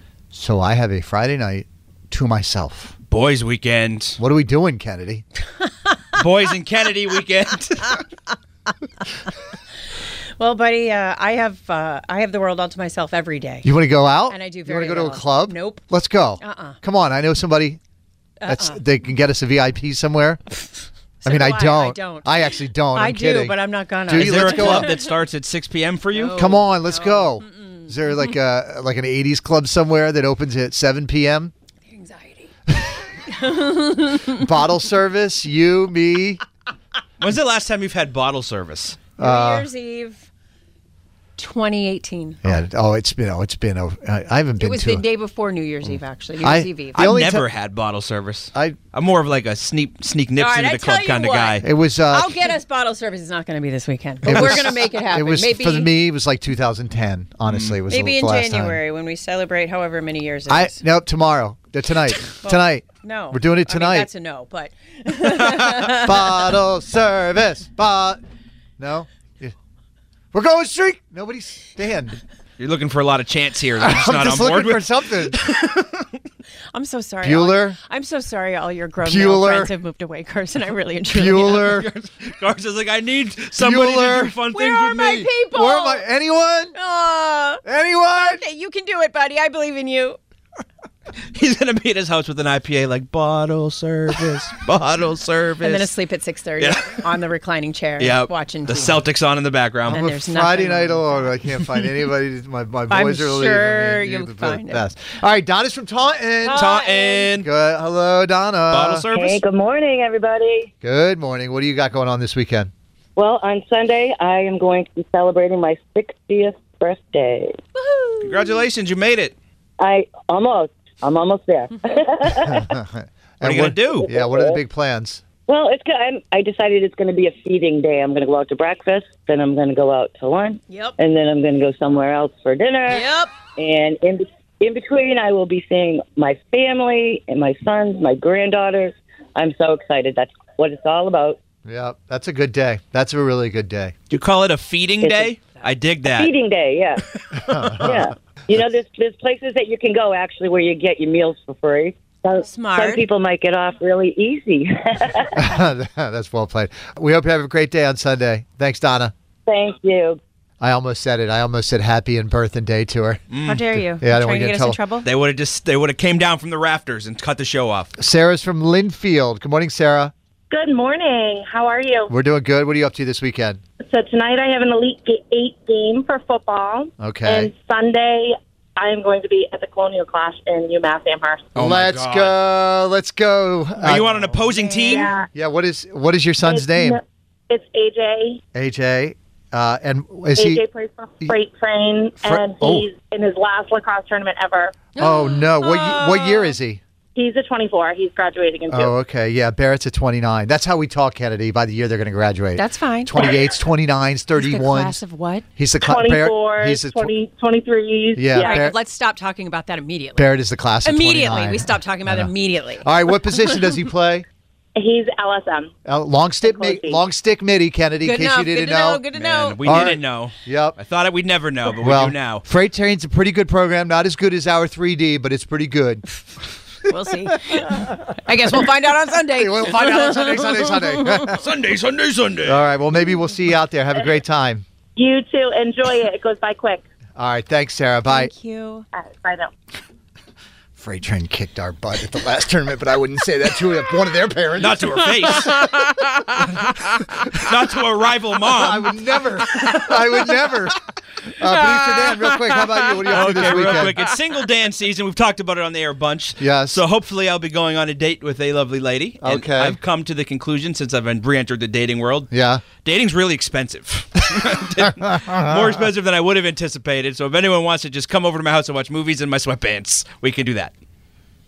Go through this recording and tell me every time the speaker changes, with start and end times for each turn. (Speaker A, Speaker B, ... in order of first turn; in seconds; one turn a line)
Speaker A: 0.3-3.0
Speaker B: 3.1-4.2
Speaker A: 4.2-5.2
Speaker B: 6.1-8.0
Speaker C: 10.4-13.7
Speaker A: 13.6-17.8
Speaker C: 14.3-15.8
Speaker C: 16.4-16.8
Speaker C: 18.4-18.8
Speaker A: 18.4-20.4
Speaker C: 21.2-25.1
Speaker A: 21.2-24.9
Speaker B: 24.1-26.3
Speaker C: 26.1-27.9
Speaker A: 26.3-31.5
Speaker C: 31.9-34.4
Speaker A: 34.3-36.4
Speaker B: 37.2-39.0
Speaker A: 39.2-39.7
Speaker C: 39.2-40.2
Speaker C: 41.4-42.5
Speaker A: 42.4-45.0
Speaker C: 44.6-47.0
Speaker A: 46.4-47.5
Speaker B: 46.9-51.7
Speaker C: 50.4-55.9
Speaker A: 51.6-52.5
Speaker A: 54.2-58.8
Speaker B: 57.5-57.8
Speaker C: 57.9-60.8
Speaker A: 60.5-64.1
Speaker C: 62.4-66.2
Speaker A: 65.8-68.2
Speaker A: 68.8-69.5
Speaker A: 70.3-72.2
Speaker B: 72.6-76.1
Speaker A: 73.8-75.4
Speaker C: 76.7-81.7
Speaker A: 77.2-77.8
Speaker A: 79.0-79.7
Speaker A: 81.1-81.9
Speaker B: 81.6-85.3
Speaker A: 83.6-84.4
Speaker C: 84.5-86.0
Speaker A: 85.3-86.8
Speaker C: 86.8-90.2
Speaker A: 87.7-88.4
Speaker B: 91.3-95.9
Speaker C: 95.6-99.0
Speaker B: 96.6-97.1
Speaker B: 98.0-100.0
Speaker A: 99.9-106.8
Speaker C: 99.9-101.3
Speaker C: 102.9-104.8
Speaker C: 106.4-107.3
Speaker B: 106.5-107.5
Speaker A: 107.3-109.0
Speaker B: 108.7-109.4
Speaker D: 109.1-110.7
Speaker A: 110.8-112.7
Speaker D: 113.2-117.5
Speaker C: 117.8-118.6
Speaker B: 118.2-119.3
Speaker D: 119.8-122.7
Speaker A: 122.4-125.2
Speaker B: 123.4-124.1
Speaker D: 124.0-124.6
Speaker D: 125.5-141.4
Speaker C: 130.7-131.0
Speaker C: 132.9-133.3
Speaker A: 141.6-143.9
Speaker B: 144.1-146.3
Speaker D: 145.0-145.3
Speaker D: 146.1-147.0
Speaker B: 147.3-147.8
Speaker A: 147.4-148.1
Speaker D: 147.8-155.4
Speaker C: 152.4-153.1
Speaker A: 155.4-159.1
Speaker D: 159.4-160.2
Speaker A: 160.6-164.8
Speaker B: 163.3-163.7
Speaker C: 163.4-165.1
Speaker B: 165.0-167.9
Speaker A: 168.0-170.1
Speaker E: 170.5-172.1
Speaker A: 172.1-173.6
Speaker E: 173.8-181.5
Speaker A: 177.0-177.5
Speaker B: 181.5-182.3
Speaker A: 181.6-184.4
Speaker B: 183.8-185.1
Speaker C: 184.7-185.1
Speaker E: 184.8-185.3
Speaker A: 185.3-187.0
Speaker E: 186.4-188.4
Speaker A: 188.5-190.6
Speaker E: 190.3-194.8
Speaker A: 192.2-192.9
Speaker C: 194.9-196.5
Speaker A: 195.0-196.8
Speaker E: 197.1-198.9
Speaker A: 198.7-205.0
Speaker C: 202.5-203.3
Speaker C: 204.3-205.4
Speaker A: 205.6-207.1
Speaker E: 205.8-208.6
Speaker A: 208.2-208.8
Speaker C: 208.3-212.9
Speaker A: 210.2-214.3
Speaker E: 214.8-215.7
Speaker A: 215.8-219.1
Speaker E: 216.4-217.0
Speaker C: 218.0-219.8
Speaker B: 219.1-222.4
Speaker A: 219.6-220.8
Speaker A: 221.8-226.0
Speaker C: 226.8-230.9
Speaker A: 229.3-231.5
Speaker B: 231.3-232.6
Speaker A: 232.4-234.6
Speaker E: 234.9-236.8
Speaker A: 237.2-238.3
Speaker C: 238.1-238.9
Speaker E: 238.9-239.5
Speaker A: 240.8-245.5
Speaker B: 244.6-250.5
Speaker A: 248.5-254.0
Speaker B: 251.5-262.3
Speaker C: 253.2-253.7
Speaker A: 256.4-256.8
Speaker A: 259.2-259.8
Speaker A: 262.3-262.7
Speaker B: 262.8-270.7